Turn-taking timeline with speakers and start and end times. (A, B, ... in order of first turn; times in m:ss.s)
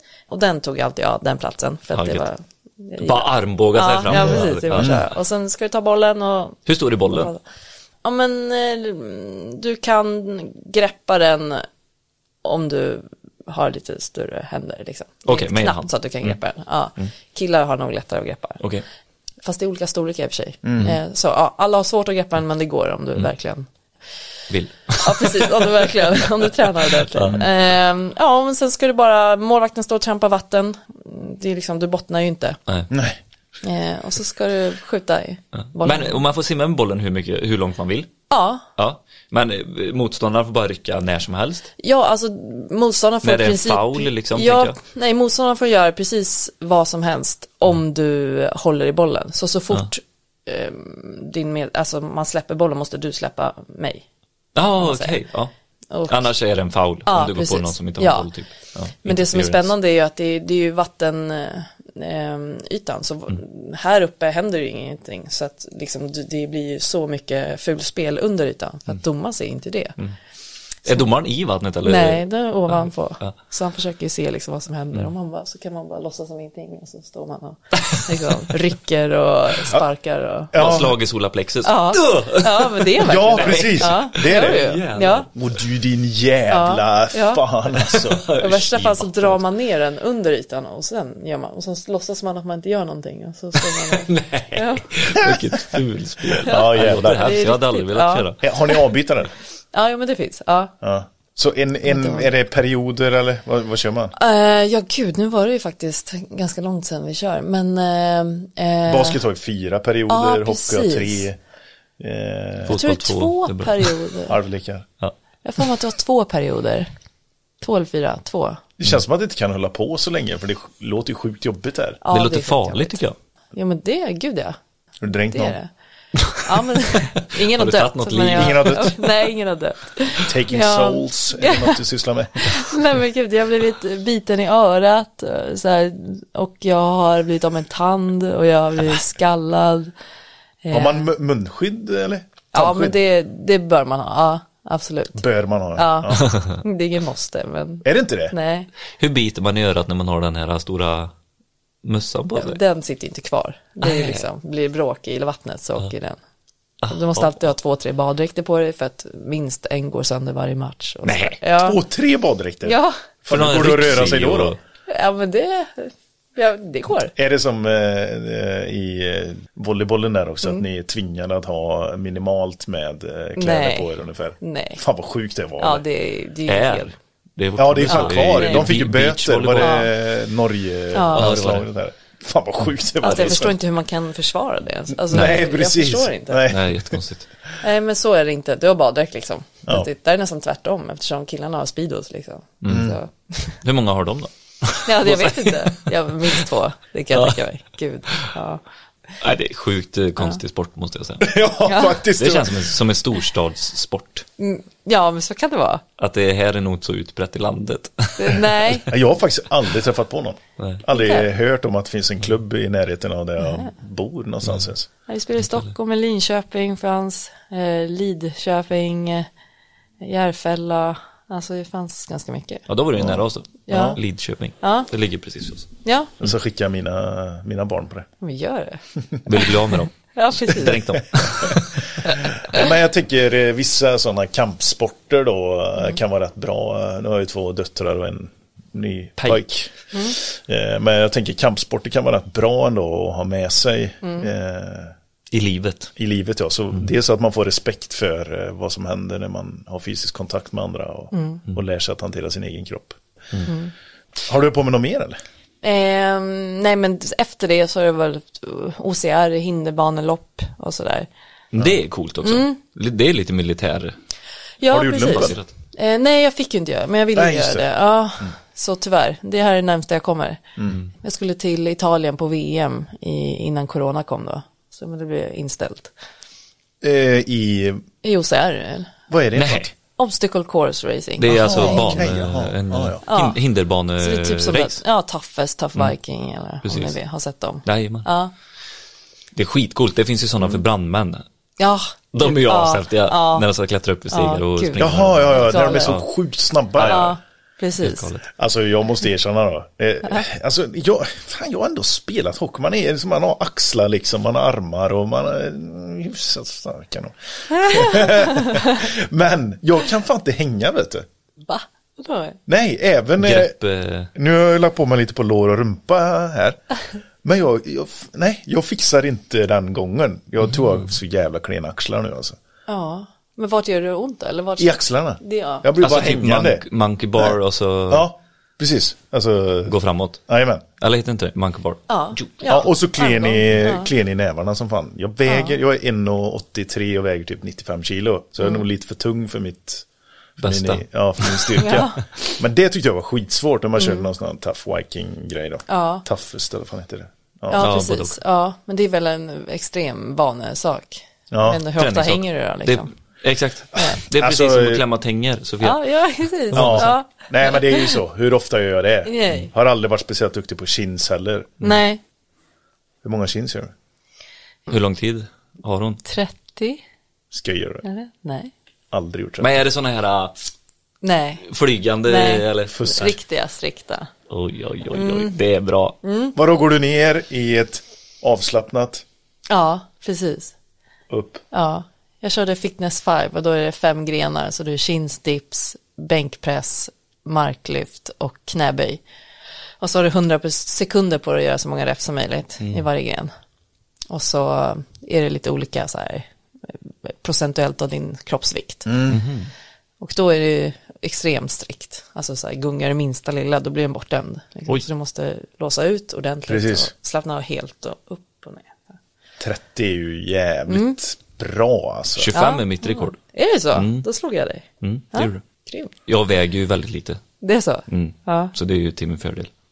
0:00.3-0:07.4 A
0:01.9-0:02.3 B
0:03.0-0:05.0 B
0:04.1-0:05.0 C
0:06.6-0:07.3 B
0:08.0-0:11.6 A
0:12.4-0:18.6 A
0:15.2-0:16.4 B
0:18.6-0:18.8 B
0:19.4-0:23.6 A
0:20.6-0:21.0 C
0:24.5-0:25.8 B
0:25.0-0:32.6 A
0:27.0-0:27.5 B
0:32.9-0:33.2 C
0:33.6-0:36.2 A
0:35.5-0:38.1 B
0:38.3-0:38.6 A
0:38.8-0:41.7 B
0:41.8-0:54.0 A
0:43.2-0:44.8 B
0:54.6-0:55.5 B
0:54.8-0:55.2 A
0:55.9-0:56.3 A
0:56.1-0:59.7 B
0:57.0-0:58.3 A
0:59.0-1:10.0 A
1:10.8-1:13.4 B
1:11.8-1:20.8 A
1:17.8-1:18.5 B
1:20.5-1:21.0 C
1:20.6-1:25.3 B
1:21.6-1:25.3 A
1:23.0-1:24.7 C
1:25.3-1:28.2 C
1:26.5-1:27.4 A
1:27.8-1:29.4 B
1:28.4-1:35.2 A
1:33.6-1:38.4 B
1:36.4-1:38.9 A
1:36.5-1:37.2 C
1:38.4-1:39.3 C
1:39.7-1:40.7 A
1:40.8-1:44.1 C
1:41.8-1:42.3 A
1:44.2-1:49.2 A
1:48.9-1:51.4 C
1:50.1-1:51.3 A
1:52.0-1:52.8 C
1:52.6-1:53.9 B
1:52.7-1:54.4 A
1:54.3-1:54.8 C
1:55.4-1:56.9 A
1:57.6-1:58.6 A
1:58.8-2:02.0 C
2:02.0-2:03.0 A
2:02.1-2:03.2 B
2:03.5-2:04.6 A
2:05.0-2:05.6 C
2:05.3-2:05.7 A
2:06.2-2:06.4 B
2:06.4-2:11.8 A
2:07.2-2:09.0 B
2:08.3-2:09.0 C
2:10.2-2:12.6 C
2:12.4-2:19.9 A
2:20.6-2:21.0 A
2:20.7-2:23.0 C
2:22.5-2:25.2 A
2:25.1-2:26.2 C
2:25.7-2:28.7 A
2:26.2-2:26.6 B
2:27.8-2:28.3 C
2:29.0-2:31.1 B
2:31.8-2:32.6 B
2:32.3-2:36.2 A
2:33.8-2:34.3 B
2:36.8-2:37.5 B
2:36.9-2:41.8 A
2:41.0-2:41.4 B
2:41.6-2:44.6 C
2:42.6-2:42.9 A
2:43.3-2:44.6 B
2:44.9-2:47.1 A
2:47.1-2:55.8 C
2:53.4-2:54.8 A
2:55.6-2:56.9 A
2:56.4-2:59.8 B
2:57.6-3:03.6 C
2:57.9-2:58.7 A
2:59.6-2:59.9 A
3:00.9-3:01.4 A
3:01.1-3:01.6 B
3:03.0-3:06.5 A
3:04.9-3:07.0 C
3:05.1-3:05.4 B
3:06.5-3:07.3 B
3:07.6-3:13.6 A
3:12.6-3:12.9 B
3:12.7-3:13.0 C
3:13.6-3:16.4 B
3:14.8-3:18.6 A
3:19.2-3:21.3 B
3:21.2-3:22.7 C
3:21.6-3:22.0 A
3:22.2-3:24.2 B
3:24.4-3:25.8 A
3:26.0-3:28.8 B
3:28.2-3:28.9 A
3:28.9-3:34.9 C
3:30.9-3:31.3 A
3:33.4-3:33.7 A
3:35.1-3:39.3 A
3:35.4-3:35.7 B
3:40.0-3:42.6 A
3:42.7-3:45.7 B
3:43.0-3:44.0 C
3:43.7-3:44.0 A
3:44.5-3:44.9 A
3:45.8-3:46.1 A
3:46.2-3:48.1 C
3:48.2-3:48.8 A
3:49.2-3:51.9 B
3:50.1-3:51.0 A
3:52.4-4:04.9 C
4:04.0-4:04.3 A
4:05.3-4:05.9 B
4:06.0-4:13.0 C
4:11.1-4:11.4 A
4:13.5-4:13.7 A
4:14.2-4:15.2 C
4:15.6-4:21.1 A
4:21.5-4:23.9 B
4:22.2-4:22.6 A
4:24.6-4:30.4 A
4:24.7-4:25.4 C
4:25.1-4:25.5 B
4:27.1-4:27.6 C
4:31.0-4:35.9 A
4:36.8-4:37.8 C
4:38.0-4:39.0 A
4:39.1-4:39.7 C
4:39.3-4:39.7 B
4:40.0-4:42.0 A
4:41.2-4:44.8 B
4:41.3-4:43.0 C
4:43.1-4:43.4 A
4:44.0-4:48.3 A
4:46.6-4:47.0 B
4:47.6-4:48.1 B
4:49.3-4:51.2 B
4:51.6-4:53.5 A
4:52.1-4:56.0 B
4:54.1-4:56.0 A
4:54.8-4:57.2 C
4:56.8-4:57.1 B
4:56.8-4:58.1 A
4:57.8-4:58.2 B
4:58.4-5:11.0 C
5:07.6-5:08.6 A
5:11.4-5:12.4 A
5:12.5-5:13.5 C
5:13.2-5:14.1 B
5:14.1-5:16.6 C
5:17.2-5:22.4 C
5:22.7-5:25.6 A
5:24.6-5:26.6 C
5:25.8-5:28.1 B
5:27.9-5:29.7 C
5:29.7-5:30.2 B
5:30.3-5:30.6 C
5:30.8-5:32.2 B
5:31.9-5:33.9 A
5:32.5-5:39.8 C
5:35.2-5:35.6 A
5:40.4-5:41.6 B
5:40.4-5:47.7 C
5:41.6-5:42.0 A
5:43.8-5:44.1 A
5:45.7-5:46.0 A
5:47.5-5:52.9 A
5:47.6-5:48.1 B
5:51.3-5:51.6 C
5:51.7-5:55.8 B
5:53.8-5:54.8 C
5:55.6-5:58.0 A
5:56.5-5:56.9 B
5:56.5-6:01.5 C
5:59.0-5:59.5 A
6:01.6-6:02.0 A
6:03.0-6:03.7 C
6:04.7-6:06.0 B
6:06.0-6:06.8 A
6:07.3-6:07.8 C
6:07.8-6:08.5 A
6:08.9-6:09.6 C
6:09.4-6:10.4 B
6:11.0-6:11.4 A
6:11.4-6:12.8 B
6:12.0-6:14.1 A
6:12.7-6:13.2 C
6:14.3-6:16.0 B
6:14.9-6:15.3 A
6:16.0-6:16.4 A
6:16.3-6:19.0 C
6:19.5-6:20.5 A
6:21.1-6:21.4 C
6:21.5-6:29.0 A
6:29.8-6:33.3 A
6:34.1-6:38.9 A
6:38.8-6:39.2 C
6:39.1-6:39.5 B
6:40.0-6:48.9 A
6:46.5-6:46.9 C
6:49.4-6:52.3 C
6:50.7-6:51.0 A
6:52.2-6:53.2 B
6:52.3-6:55.9 A
6:53.7-6:54.1 B
6:54.8-6:55.4 B
6:56.0-6:57.2 B
6:57.4-6:58.5 A
6:57.9-6:59.5 B